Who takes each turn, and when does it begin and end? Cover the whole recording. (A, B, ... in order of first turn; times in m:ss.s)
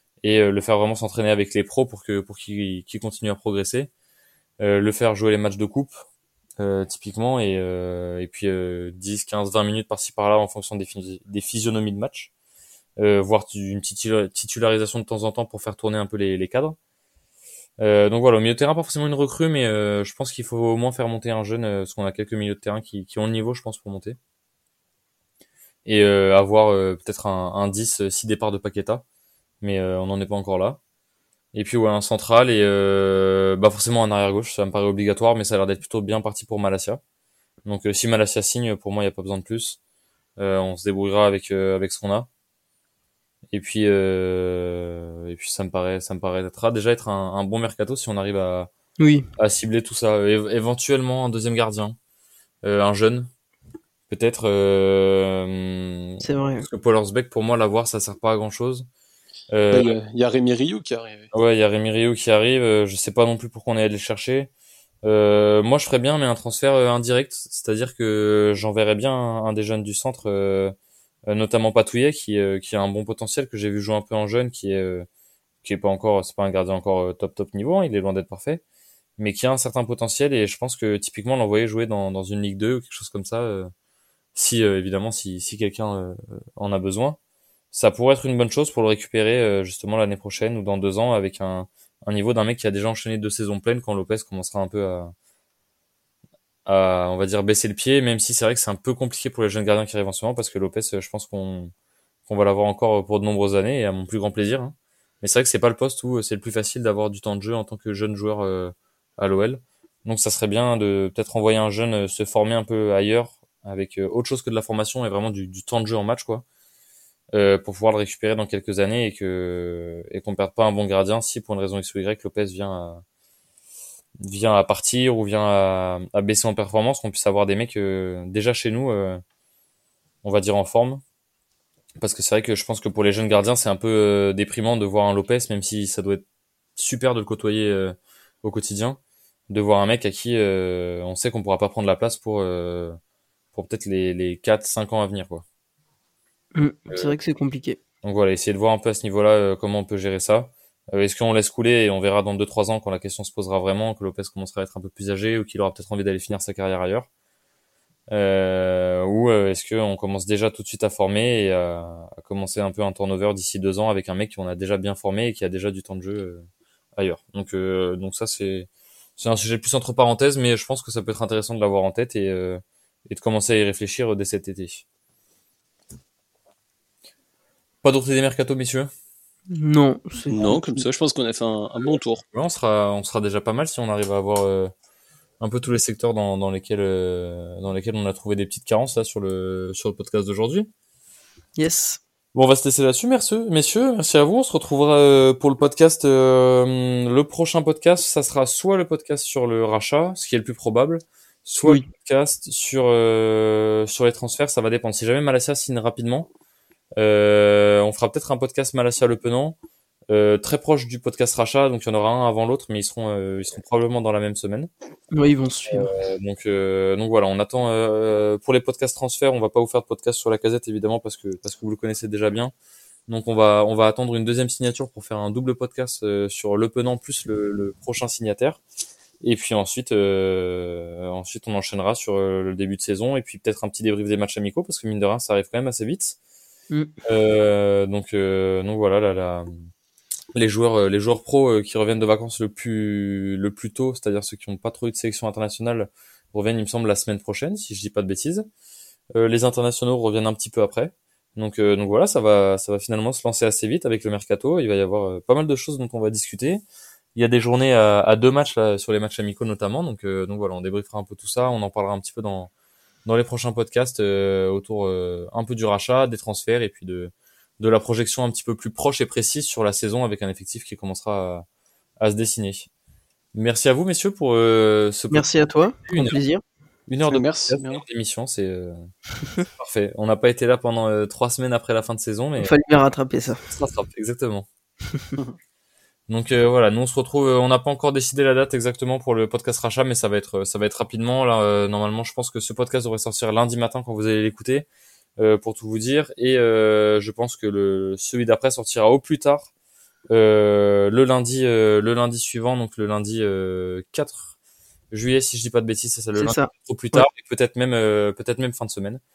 0:00.2-0:03.9 A
0:04.6-0:05.9 A
0:06.6-0:12.3 A
0:13.0-0:16.8 A
0:17.8-0:24.2 A
0:25.9-0:29.0 A
0:29.6-0:30.8 A
0:31.5-0:37.0 A
0:37.6-0:39.8 A
0:40.4-0:42.3 A
0:43.5-0:48.7 A
0:49.0-0:49.3 B
0:49.4-0:52.0 A
0:52.6-0:53.3 A
0:54.1-0:58.9 A
0:56.2-0:56.7 B
0:59.5-0:59.9 A
0:59.7-1:01.3 C
1:01.3-1:04.5 A
1:05.0-1:10.8 A
1:11.3-1:15.1 A
1:15.6-1:18.6 A
1:19.2-1:23.7 A
1:24.4-1:27.2 A
1:27.7-1:35.1 A
1:36.7-1:41.7 A
1:42.3-1:56.4 A
1:57.3-2:03.0 A
2:04.2-2:09.2 A
2:10.2-2:11.0 A
2:12.0-2:16.2 A
2:16.8-2:19.0 A
2:19.5-2:23.0 A
2:23.5-2:25.4 A
2:26.6-2:27.8 B
2:26.9-2:27.2 A
2:28.0-2:37.1 A
2:38.1-2:54.8 A
2:57.8-2:58.9 A
2:59.5-3:00.8 B
3:00.3-3:02.2 C
3:02.3-3:04.7 A
3:05.4-3:10.7 A
3:11.6-3:12.0 B
3:12.4-3:26.3 A
3:27.0-3:29.6 A
3:30.1-3:34.7 A
3:35.1-3:35.9 B
3:35.7-3:42.5 A
3:43.1-3:48.6 A
3:49.2-3:56.2 A
3:57.0-3:59.5 A
4:00.3-4:08.5 A
4:09.1-4:16.6 A
4:17.2-4:22.5 A
4:23.0-4:31.4 A
4:32.0-4:32.7 A
4:33.3-4:36.2 A
4:35.1-4:36.4 B
4:36.9-4:38.9 A
4:37.1-4:37.8 C
4:39.5-4:42.6 A
4:42.4-4:43.4 B
4:43.5-4:44.5 A
4:46.1-4:54.7 A
4:55.2-4:59.5 A
5:00.1-5:04.4 A
5:04.9-5:09.0 A
5:06.2-5:07.1 B